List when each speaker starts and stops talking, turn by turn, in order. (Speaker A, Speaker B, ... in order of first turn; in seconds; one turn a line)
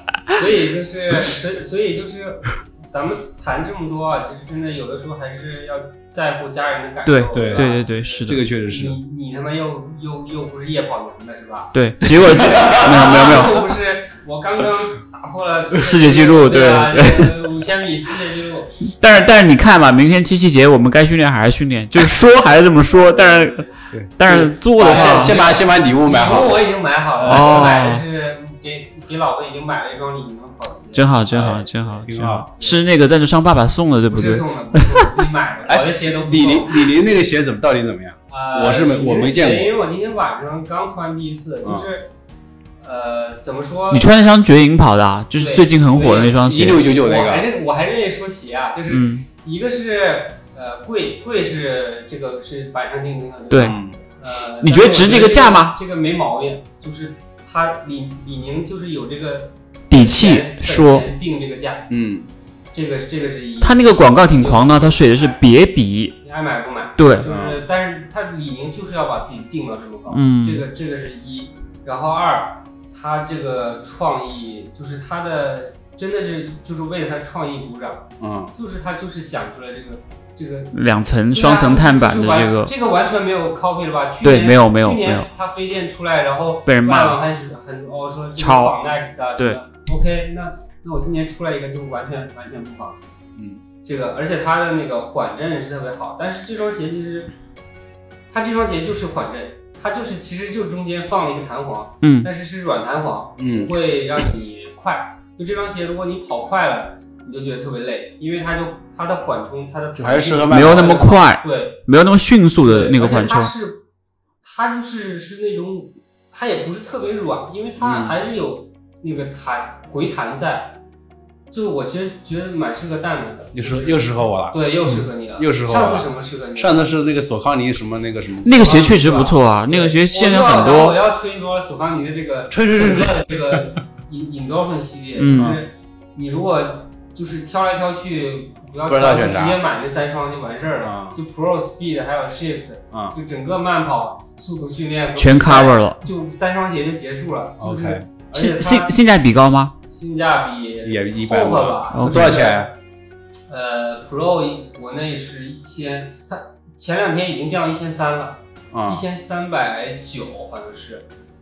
Speaker A: 0.3-11.8
Speaker B: 7.1-8.4
Speaker C: 7.3-9.0
Speaker B: 11.7-13.6
Speaker C: 12.1-13.5
Speaker A: 12.5-19.0
Speaker B: 15.7-17.4
Speaker B: 19.0-25.4
Speaker A: 22.7-23.7
Speaker C: 23.9-26.6
Speaker A: 24.3-32.1
Speaker C: 27.2-27.7
Speaker B: 27.2-28.0
Speaker B: 30.9-35.0
Speaker C: 32.0-32.5
Speaker A: 34.1-37.0
Speaker C: 35.7-39.7
Speaker A: 38.3-42.1
Speaker C: 41.6-41.9
Speaker A: 42.8-44.1
Speaker B: 43.9-46.8
Speaker A: 45.4-61.9
Speaker C: 46.4-47.5
Speaker B: 48.9-49.3
Speaker B: 53.5-53.8
Speaker C: 53.6-54.0
Speaker B: 54.6-55.8
Speaker B: 59.9-61.1
Speaker C: 61.9-62.3
Speaker A: 62.7-65.4
Speaker B: 63.6-66.2
Speaker A: 66.2-80.8
Speaker B: 67.0-67.3
Speaker C: 67.2-67.6
Speaker B: 70.1-70.7
Speaker C: 78.2-78.5
Speaker B: 80.7-82.7
Speaker A: 81.3-93.0
Speaker B: 84.2-85.3
Speaker B: 86.7-87.2
Speaker B: 88.4-88.8
Speaker C: 93.4-93.6
Speaker A: 93.8-97.3
Speaker A: 98.3-111.8
Speaker B: 102.0-102.3
Speaker C: 103.4-103.7
Speaker C: 110.0-111.1
Speaker B: 110.5-113.5
Speaker A: 112.6-113.8
Speaker A: 114.4-120.8
Speaker C: 117.8-118.2
Speaker A: 121.5-126.9
Speaker C: 123.5-128.6
Speaker B: 128.4-131.0
Speaker A: 128.4-148.9
Speaker C: 132.5-133.6
Speaker B: 135.2-135.6
Speaker C: 135.3-135.6
Speaker C: 138.9-139.6
Speaker C: 140.8-141.2
Speaker B: 145.2-146.0
Speaker C: 147.6-148.1
Speaker B: 148.3-149.8
Speaker A: 149.9-152.7
Speaker C: 150.8-152.7
Speaker B: 151.9-152.4
Speaker A: 153.5-161.1
Speaker C: 158.7-159.0